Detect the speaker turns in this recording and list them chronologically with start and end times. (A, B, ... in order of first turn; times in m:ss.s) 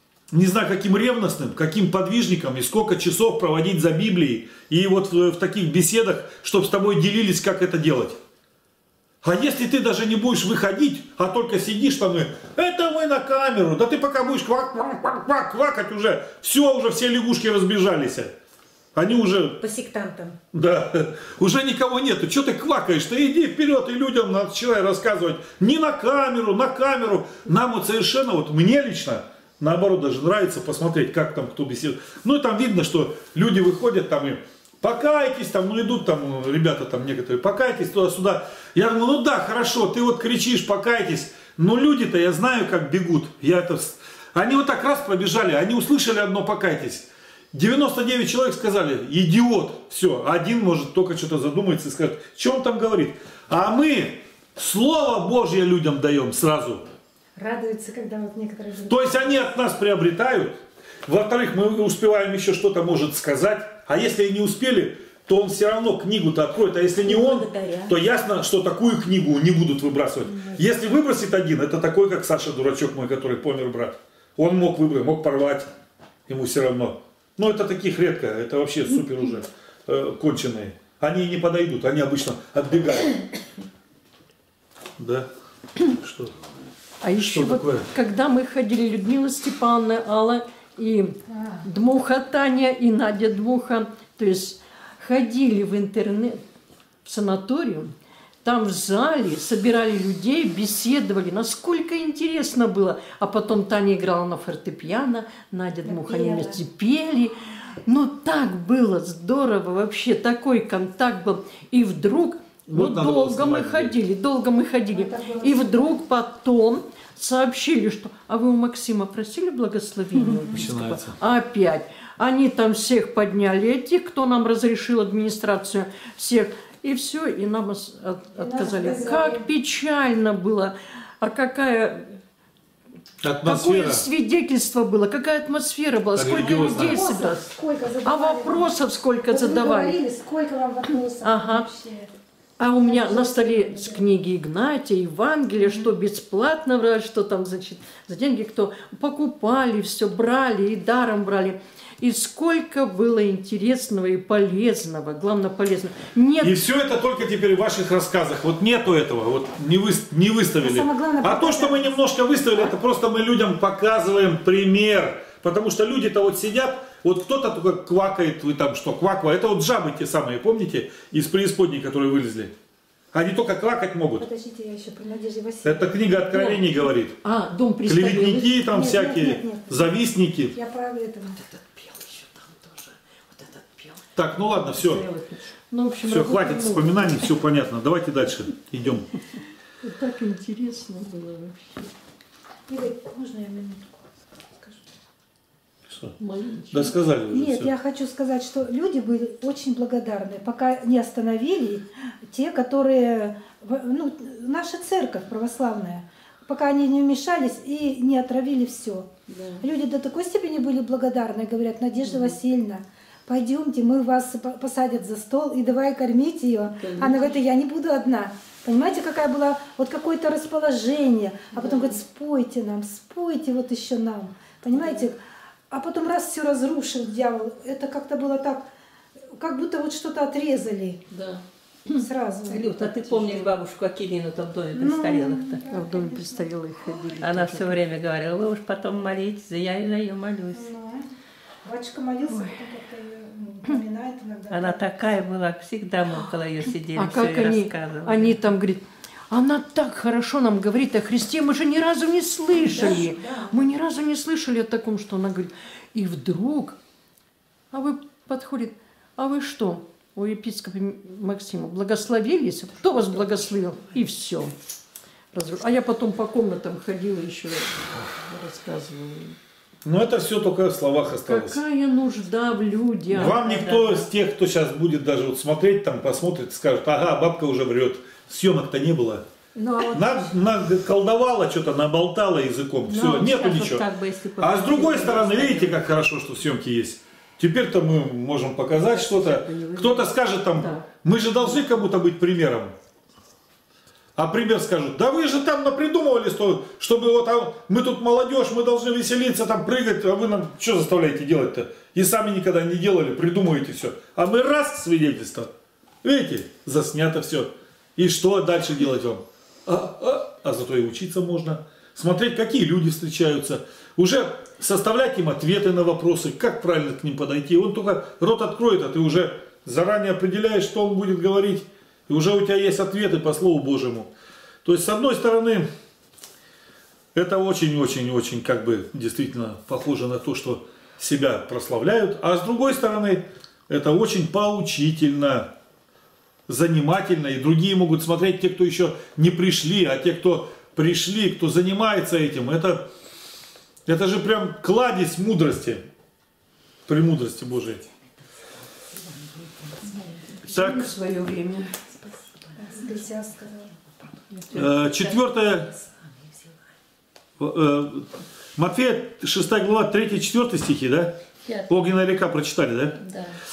0:00.3-0:08.2 A
0:09.2-0:18.3 A
0:18.9-0:19.6 A
0:19.6-0:20.4 B
0:20.5-0:56.9 A
0:57.4-0:59.4 C
0:58.9-1:15.7 A
1:07.0-1:08.0 B
1:16.3-1:23.2 A
1:25.0-1:25.3 A
1:25.8-1:26.3 A
1:27.0-1:36.4 D
1:27.2-1:27.9 A
1:31.3-1:31.6 C
1:37.0-2:12.2 D
1:45.8-1:46.6 C
1:52.7-1:53.9 A
1:54.8-1:56.1 C
2:00.2-2:00.7 E
2:00.5-2:01.2 A
2:08.3-2:09.5 C
2:13.2-2:14.0 A
2:13.4-2:17.5 D
2:16.2-2:17.0 A
2:16.7-2:18.7 C
2:18.1-2:20.0 D
2:19.2-2:22.1 C
2:21.2-2:21.6 D
2:22.6-2:36.6 D
2:22.8-2:24.0 C
2:36.4-2:52.5 A
2:40.4-2:42.0 C
2:53.1-2:54.3 A
2:54.2-2:56.3 C
2:55.6-2:57.2 A
2:56.3-2:56.7 D
2:57.2-2:58.6 D
2:57.8-3:00.5 A
2:58.6-3:01.4 C
3:04.2-3:05.1 A
3:04.5-3:07.4 D
3:06.0-3:09.1 A
3:09.8-3:11.9 D
3:12.7-3:13.8 C
3:15.9-3:16.1 A
3:16.2-3:16.7 D
3:16.7-3:17.7 A
3:17.3-3:45.2 C
3:29.3-3:29.7 E
3:32.0-3:32.4 E
3:36.8-3:37.4 E
3:41.6-3:41.9 E
3:44.7-3:45.1 E
3:45.7-3:48.7 C
3:49.4-3:51.0 C
3:51.1-3:51.4 E
3:51.9-3:53.5 C
3:52.0-4:00.7 E
3:54.7-3:57.6 C
3:57.4-3:57.7 D
4:00.5-4:01.1 C
4:01.6-4:05.1 C
4:04.5-4:08.4 E
4:06.9-4:16.8 D
4:12.6-4:13.6 B
4:17.7-4:24.6 D
4:25.3-4:29.4 D
4:29.8-4:31.6 A
4:31.2-4:34.1 D
4:33.1-4:39.2 A
4:39.6-4:40.3 C
4:39.9-4:43.9 A
4:42.9-4:45.8 E
4:44.4-4:52.7 A
4:48.9-4:50.1 E
4:54.2-5:05.5 A
5:06.0-5:24.1 A
5:24.6-5:25.7 A
5:27.1-5:35.5 A
5:36.5-5:42.8 A
5:43.8-5:45.8 A
5:46.9-5:47.9 A
5:50.4-5:51.8 D
5:50.4-5:50.9 A
5:52.6-5:53.7 C
5:54.5-5:55.7 A
5:57.4-6:01.1 A
6:01.7-6:03.0 A